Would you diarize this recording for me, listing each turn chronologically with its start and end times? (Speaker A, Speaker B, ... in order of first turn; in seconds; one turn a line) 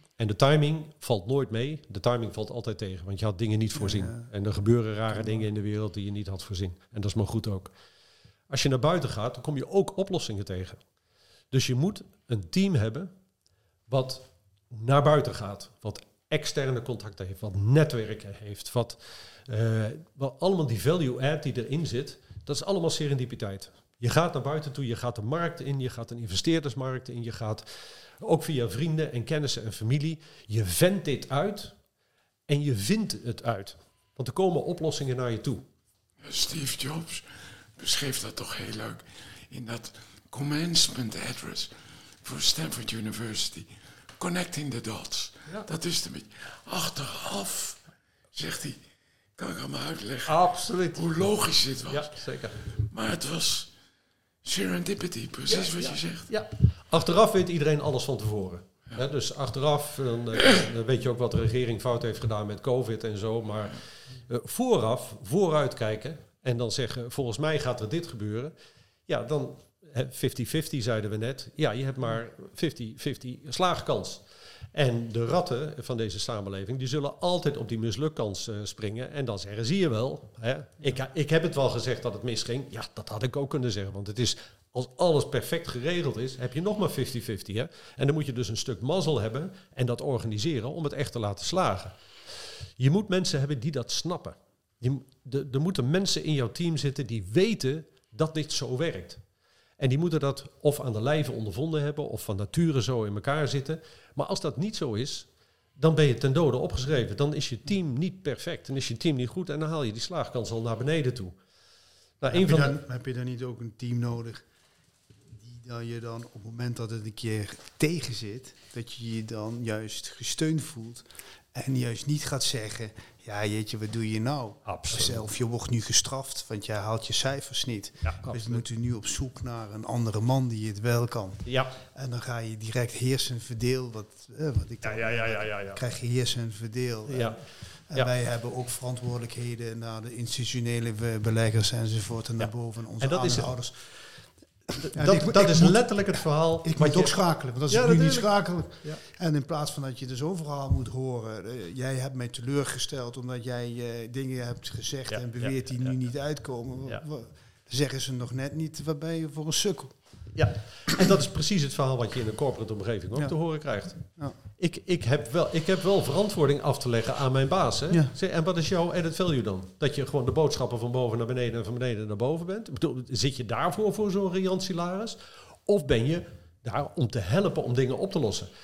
Speaker A: 0.2-7.7
Speaker B: 3.8-4.2
Speaker A: 8.5-10.8
Speaker A: 11.5-13.1
Speaker A: 13.9-27.7
Speaker A: 28.2-31.7
Speaker A: 32.5-35.6
Speaker C: 36.2-47.8
Speaker C: 48.3-48.8
Speaker C: 49.4-50.3
Speaker A: 50.2-51.1
Speaker C: 50.9-53.7
Speaker A: 51.9-52.6
Speaker C: 54.4-56.3
Speaker A: 55.5-68.5
Speaker A: 69.1-74.2
Speaker A: 74.7-91.9
Speaker A: 92.8-99.2
Speaker A: 99.8-111.4
Speaker A: 112.2-112.8
Speaker B: 112.3-114.5
Speaker B: 115.3-143.8
Speaker A: 124.7-125.3
Speaker A: 128.0-128.6
Speaker A: 131.4-131.8
Speaker A: 134.8-135.8
Speaker A: 137.1-137.4
Speaker A: 142.4-143.6
Speaker A: 144.8-149.0
Speaker B: 144.9-145.8
Speaker B: 146.6-160.0
Speaker A: 155.1-155.9
Speaker A: 160.3-178.5